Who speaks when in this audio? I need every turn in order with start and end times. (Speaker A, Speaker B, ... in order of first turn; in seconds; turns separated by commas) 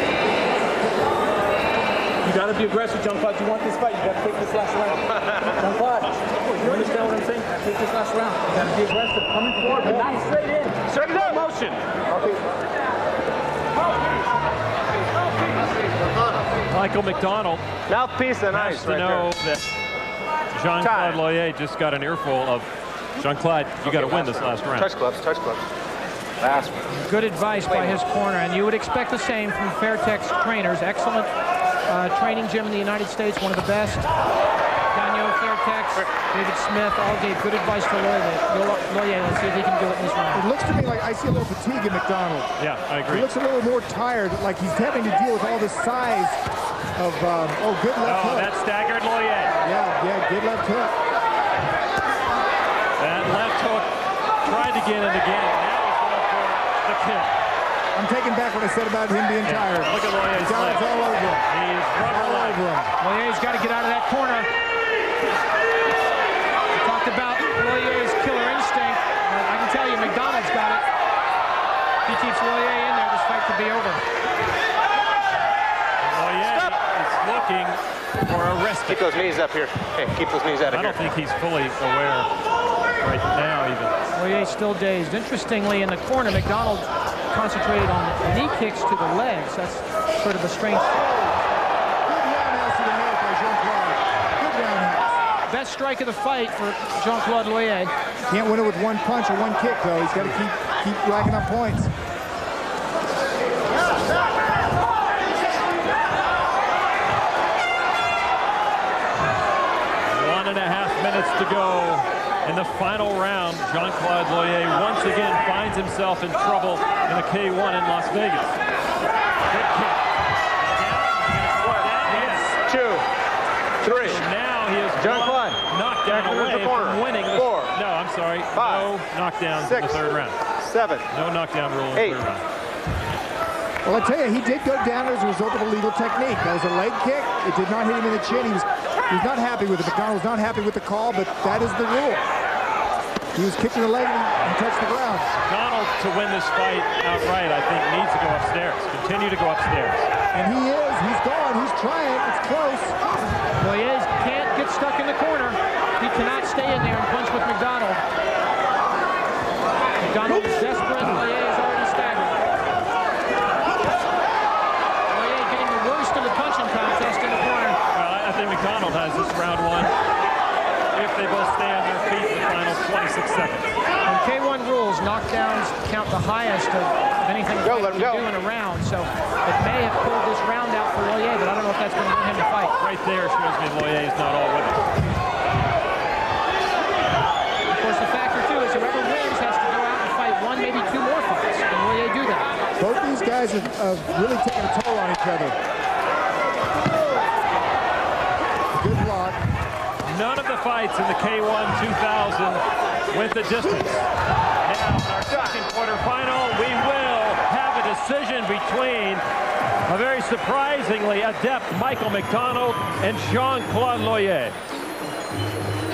Speaker A: 2.2-5.0, Speaker A: 5.6-6.0, Speaker A: 6.6-10.7, Speaker B: 10.9-11.4, Speaker C: 16.7-17.6, Speaker B: 17.9-19.3, Speaker C: 18.5-19.6, Speaker C: 20.5-24.9, Speaker B: 20.8-21.2, Speaker B: 23.9-25.6, Speaker B: 26.4-26.8, Speaker D: 26.9-31.3, Speaker D: 31.9-34.1, Speaker D: 34.9-40.5, Speaker E: 40.3-42.5, Speaker C: 42.6-43.3, Speaker E: 43.0-46.4, Speaker E: 47.0-48.5, Speaker C: 48.0-49.5, Speaker E: 49.6-50.9, Speaker C: 53.0-53.9, Speaker C: 54.4-57.3, Speaker E: 57.9-62.9, Speaker C: 59.4-62.7, Speaker D: 63.0-64.5, Speaker D: 66.7-70.8, Speaker D: 72.0-74.0, Speaker C: 76.0-79.3, Speaker B: 78.9-81.0, Speaker C: 80.7-82.3, Speaker C: 83.0-83.9, Speaker D: 84.1-90.9, Speaker E: 90.9-91.4, Speaker E: 92.0-95.1, Speaker D: 95.5-97.9, Speaker E: 98.3-101.9, Speaker C: 110.1-118.6, Speaker C: 119.5-120.0, Speaker C: 120.6-122.6, Speaker B: 122.7-123.0, Speaker B: 123.8-124.2, Speaker C: 123.8-130.4, Speaker B: 125.0-127.7, Speaker B: 128.5-128.9, Speaker B: 129.6-130.0, Speaker B: 130.6-131.0, Speaker C: 131.1-132.4, Speaker E: 133.8-142.2, Speaker E: 143.3-145.3, Speaker C: 145.4-150.1, Speaker E: 150.3-153.0, Speaker D: 153.6-158.0, Speaker D: 160.0-162.4, Speaker D: 165.1-167.8, Speaker C: 167.9-169.9, Speaker C: 170.9-173.7, Speaker D: 174.0-182.7, Speaker B: 177.6-178.2, Speaker C: 182.8-184.9, Speaker D: 187.7-192.4, Speaker E: 192.8-195.5, Speaker E: 198.7-199.4, Speaker C: 200.1-204.1, Speaker C: 204.6-209.2, Speaker C: 209.9-214.5